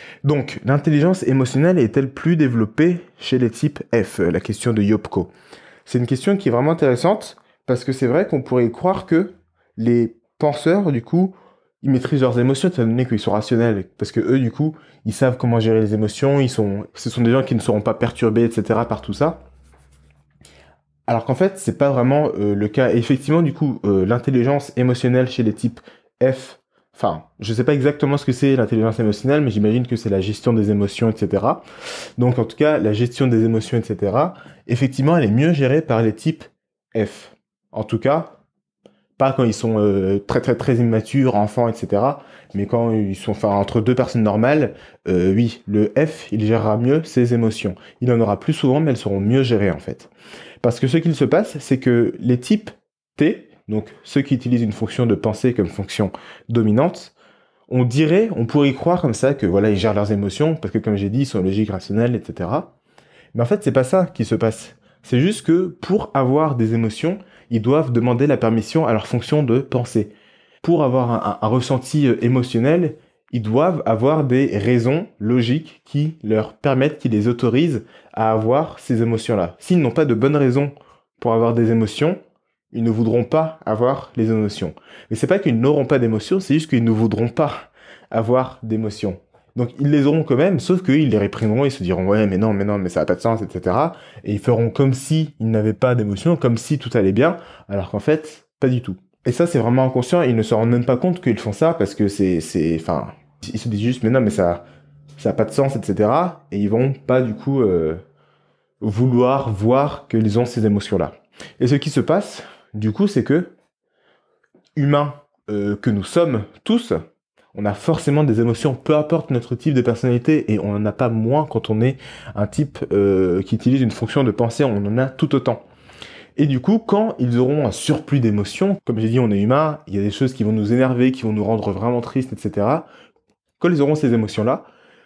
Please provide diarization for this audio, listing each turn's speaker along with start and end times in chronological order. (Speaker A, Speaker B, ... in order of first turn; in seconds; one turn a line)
Speaker A: 0.2-5.3
Speaker A: 5.9-19.4
Speaker A: 21.1-31.6
Speaker A: 32.2-38.4
Speaker A: 39.2-50.1
Speaker A: 50.6-57.1
Speaker A: 57.7-62.7
Speaker A: 63.3-82.2
Speaker A: 82.7-104.6
Speaker A: 105.2-108.0
Speaker A: 108.8-113.5
Speaker A: 114.8-117.0
Speaker A: 117.5-125.6
Speaker A: 126.4-132.9
Speaker A: 133.6-134.7